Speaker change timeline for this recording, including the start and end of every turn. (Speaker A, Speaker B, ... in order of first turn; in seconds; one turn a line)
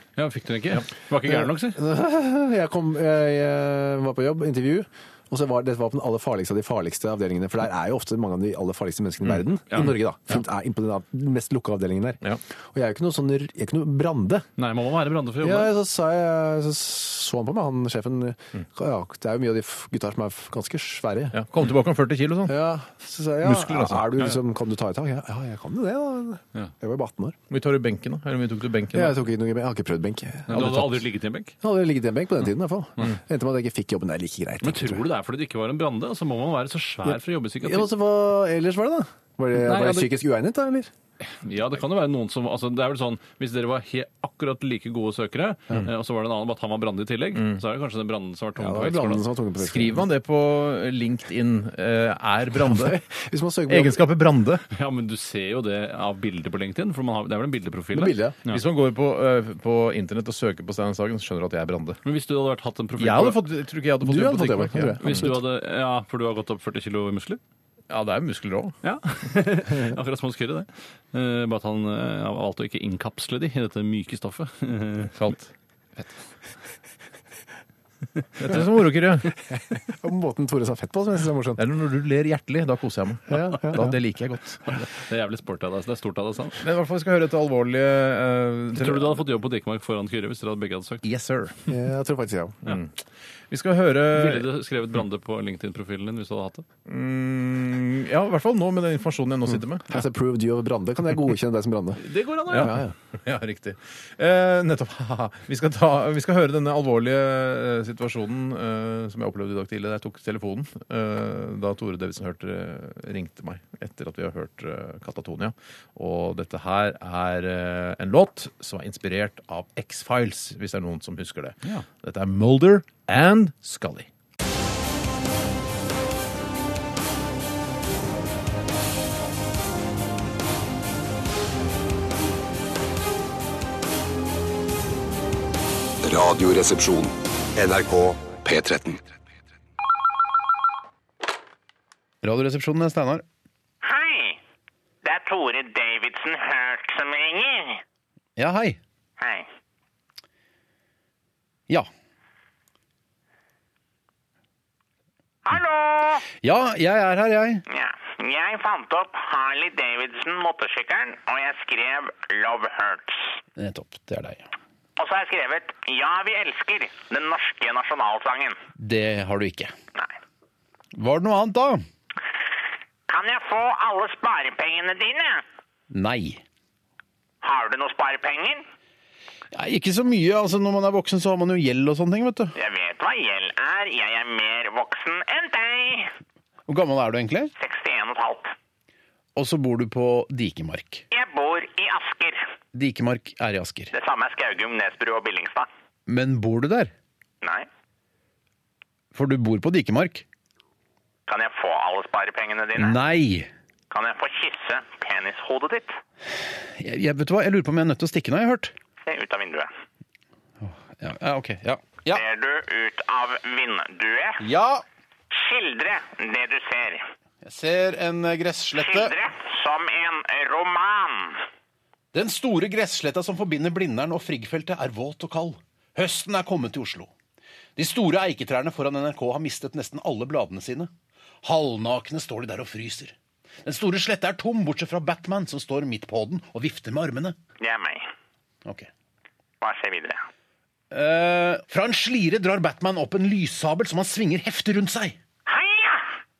Speaker A: 0.2-1.8
Speaker B: 1.2-12.2
Speaker B: 12.7-14.5
Speaker A: 14.6-15.7
Speaker B: 15.4-21.4
Speaker C: 21.3-22.6
Speaker B: 22.5-27.4
Speaker C: 23.4-24.1
Speaker C: 27.5-29.2
Speaker B: 28.9-31.1
Speaker A: 30.5-31.5
Speaker B: 31.6-35.0
Speaker A: 34.6-37.9
Speaker B: 37.1-40.9
Speaker A: 39.5-40.1
Speaker A: 41.2-49.2
Speaker C: 47.4-47.6
Speaker B: 48.6-50.0
Speaker C: 49.6-53.0
Speaker B: 52.5-54.0
Speaker C: 53.7-54.6
Speaker A: 54.7-58.6
Speaker B: 57.9-58.4
Speaker C: 58.5-62.0
Speaker A: 62.0-63.4
Speaker C: 63.0-65.4
Speaker B: 64.0-65.4
Speaker A: 65.0-67.4
Speaker C: 67.9-68.8
Speaker A: 68.8-75.1
Speaker C: 75.2-75.5
Speaker C: 78.4-79.4
Speaker B: 79.5-81.6
Speaker C: 81.6-84.8
Speaker B: 83.3-83.9
Speaker A: 84.7-86.6
Speaker C: 86.6-89.2
Speaker A: 88.8-91.0
Speaker C: 91.0-91.7
Speaker B: 91.7-92.6
Speaker C: 92.7-92.9
Speaker C: 93.5-94.5
Speaker A: 94.1-96.7
Speaker C: 96.9-100.0
Speaker B: 99.9-102.9
Speaker A: 102.0-102.8
Speaker C: 102.5-124.1
Speaker D: 136.0-139.0
Speaker E: 142.2-143.2
Speaker F: 143.8-144.4
Speaker F: 145.0-147.8
Speaker E: 148.4-148.8
Speaker F: 149.2-149.5
Speaker F: 155.5-156.3
Speaker E: 156.3-157.6
Speaker F: 157.7-163.4
Speaker E: 163.6-164.5
Speaker F: 165.0-168.6
Speaker E: 168.8-169.7
Speaker E: 170.9-171.8
Speaker F: 173.1-175.4
Speaker E: 175.9-176.4
Speaker F: 177.4-178.6
Speaker E: 179.5-182.5
Speaker F: 182.6-186.1
Speaker E: 186.7-187.5
Speaker F: 187.6-188.5
Speaker E: 189.4-191.1
Speaker F: 191.1-192.4
Speaker E: 192.7-193.9
Speaker F: 193.9-195.7
Speaker E: 196.1-196.9
Speaker F: 197.4-197.7
Speaker E: 199.1-200.2
Speaker F: 201.3-203.0
Speaker E: 202.8-203.5
Speaker F: 203.9-206.0
Speaker E: 206.8-208.7
Speaker F: 209.1-209.7
Speaker E: 210.6-212.2
Speaker F: 212.1-214.4
Speaker E: 214.4-214.8
Speaker F: 215.3-217.1
Speaker E: 217.4-219.1
Speaker F: 218.7-221.4
Speaker E: 222.1-227.1
Speaker E: 227.8-230.9
Speaker E: 231.4-237.4
Speaker F: 237.6-238.1
Speaker F: 239.6-240.2
Speaker E: 240.9-245.2
Speaker F: 245.5-246.1